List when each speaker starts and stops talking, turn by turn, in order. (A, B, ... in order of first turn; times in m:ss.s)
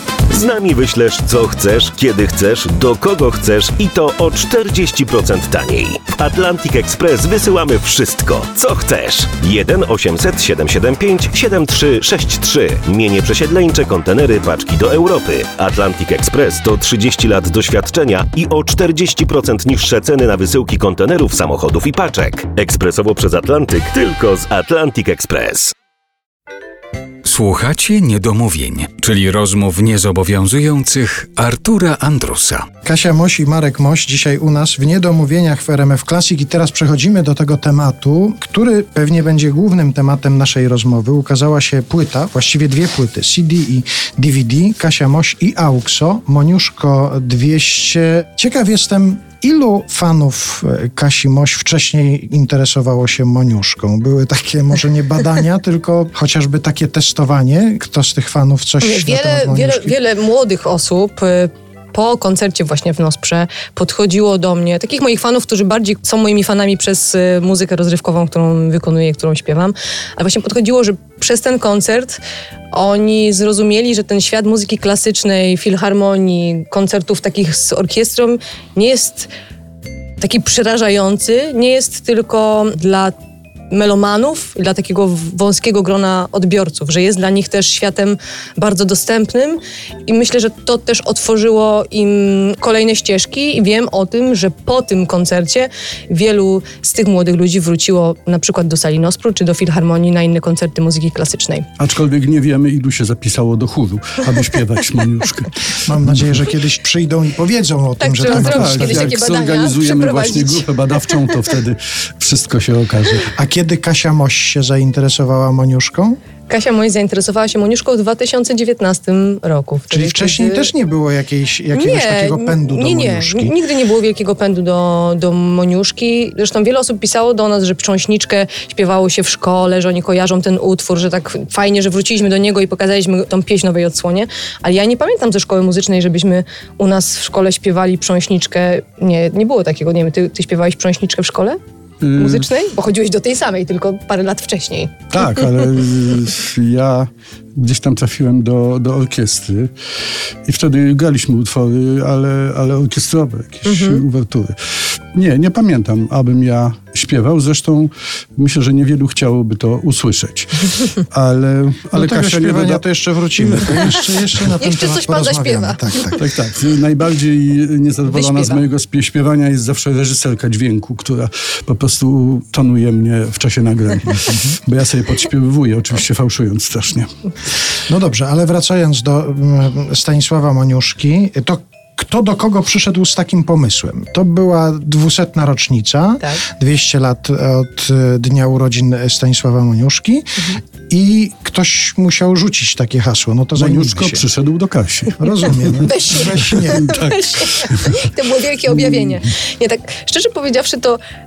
0:00.3-0:25.7 A
0:27.2-0:32.7 B
0:32.8-1:00.0 C
0:58.8-1:19.3 D
1:20.2-1:23.1 D
1:23.7-1:41.7 D
1:41.8-1:46.3 E
1:45.9-1:49.2 C
1:48.0-1:50.7 D
1:48.3-1:53.3 E
1:53.3-1:56.2 C
1:56.5-2:00.7 D
1:59.9-2:03.6 C
2:01.7-2:21.6 D
2:22.0-2:22.5 E
2:22.2-2:25.2 D
2:25.1-2:29.7 E
2:30.5-2:34.6 E
2:33.6-2:34.0 D
2:35.1-2:42.8 E
2:42.0-2:46.2 C
2:43.4-2:44.1 E
2:44.5-2:46.1 D
2:46.2-2:57.1 E
2:48.1-2:48.6 D
2:57.9-3:14.3 C
3:13.6-3:15.8 E
3:15.2-3:16.9 C
3:15.9-3:21.0 D
3:16.8-3:18.0 E